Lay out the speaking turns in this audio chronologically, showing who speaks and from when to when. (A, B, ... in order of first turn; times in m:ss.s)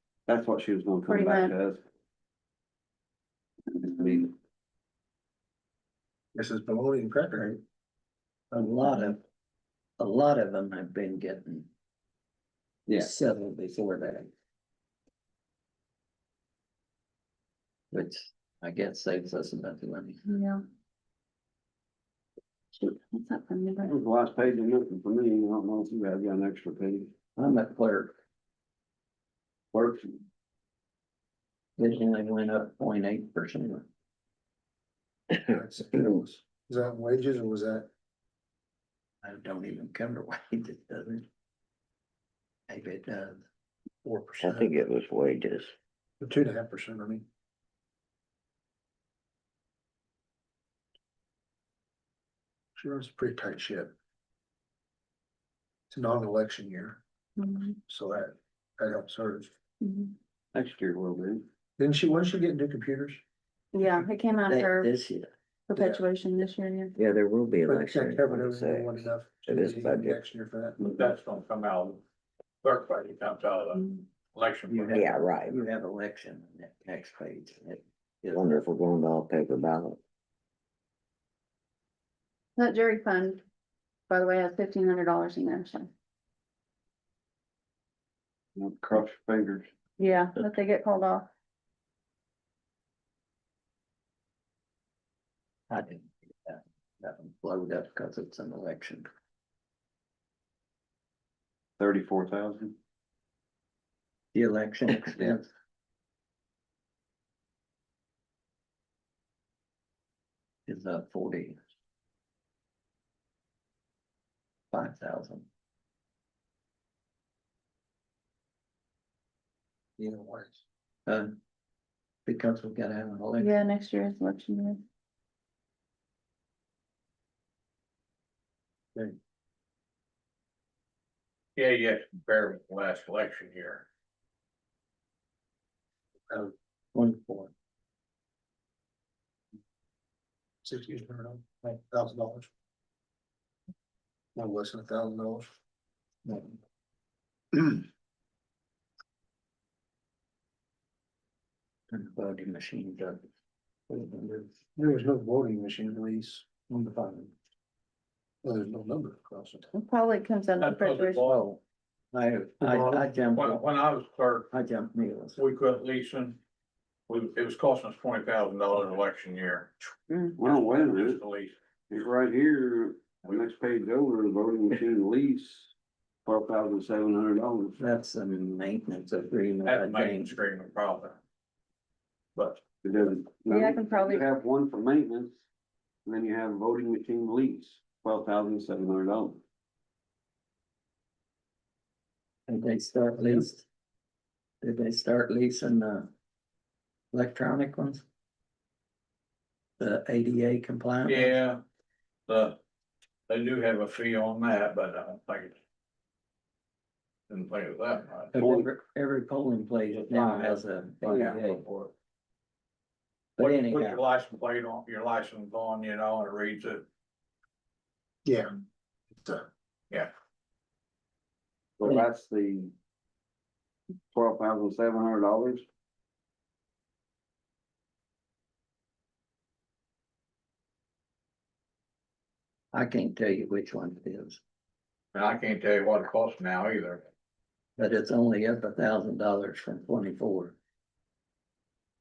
0:00.3-0:01.8 A
0:01.1-0:01.6 B
0:03.8-0:04.3 A
0:06.3-0:07.6 C
0:08.5-0:09.2 D
0:10.0-0:11.7 D
0:12.9-0:14.3 D
0:17.9-0:20.2 D
0:20.2-0:20.6 B
0:22.7-0:24.0 B
0:23.8-0:27.1 A
0:27.4-0:28.1 D
0:29.7-0:30.1 A
0:31.8-0:33.9 D
0:35.4-0:37.9 C
0:39.2-0:41.2 D
0:42.7-0:43.4 D
0:44.0-0:44.8 C
0:44.4-0:45.7 E
0:46.2-0:47.2 C
0:52.8-0:53.9 C
0:55.9-0:57.0 C
0:57.4-0:57.8 B
0:57.9-0:59.5 C
0:59.8-1:00.1 B
1:00.5-1:01.4 A
1:01.8-1:03.2 C
1:03.7-1:04.9 B
1:04.5-1:05.3 D
1:05.7-1:06.9 B
1:05.8-1:06.0 C
1:07.0-1:10.2 E
1:07.6-1:10.8 C
1:10.8-1:12.0 F
1:12.6-1:13.8 F
1:13.8-1:14.0 B
1:14.3-1:15.1 F
1:14.7-1:18.7 D
1:14.9-1:15.6 E
1:18.3-1:20.0 E
1:22.6-1:23.4 B
1:24.1-1:25.9 B
1:28.6-1:29.7 A
1:30.0-1:31.3 B
1:35.7-1:39.1 D
1:41.8-1:42.8 A
1:44.3-1:45.5 D
1:50.7-1:51.6 D
1:54.7-1:55.5 D
2:00.0-2:00.6 C
2:02.2-2:03.5 D
2:03.4-2:04.8 B
2:11.6-2:13.8 F
2:16.9-2:17.5 D
2:20.6-2:22.5 C
2:24.3-2:25.5 C
2:31.9-2:33.2 D
2:33.9-2:34.5 D
2:34.8-2:37.3 C
2:38.4-2:39.7 C
2:39.7-2:41.4 B
2:40.6-2:41.4 F
2:41.3-2:41.6 D
2:42.1-2:43.7 D
2:42.6-2:43.1 C
2:43.3-2:44.5 F
2:44.5-2:45.4 D
2:45.4-2:46.4 F
2:47.1-2:49.8 F
2:50.4-2:51.2 A
2:50.4-2:51.5 F
2:51.9-2:55.7 A
2:56.2-2:57.8 A
2:57.8-3:00.4 D
2:59.6-3:01.2 F
3:02.3-3:02.6 F
3:02.8-3:05.4 A
3:03.5-3:04.2 B
3:06.0-3:09.4 A
3:12.5-3:13.6 D
3:14.6-3:16.1 D
3:17.1-3:18.0 D
3:19.8-3:21.4 D
3:21.0-3:21.6 F
3:22.3-3:22.6 F
3:23.3-3:25.6 F
3:27.3-3:28.3 F
3:28.3-3:31.6 D
3:28.3-3:28.7 A
3:29.9-3:31.9 F
3:31.1-3:31.7 A
3:33.4-3:36.8 F
3:33.4-3:34.0 D
3:38.2-3:38.5 C
3:39.2-3:39.4 C
3:41.8-3:42.7 A
3:44.1-3:45.6 A
3:52.7-3:54.4 D
3:55.1-3:57.0 F
3:57.8-4:00.6 D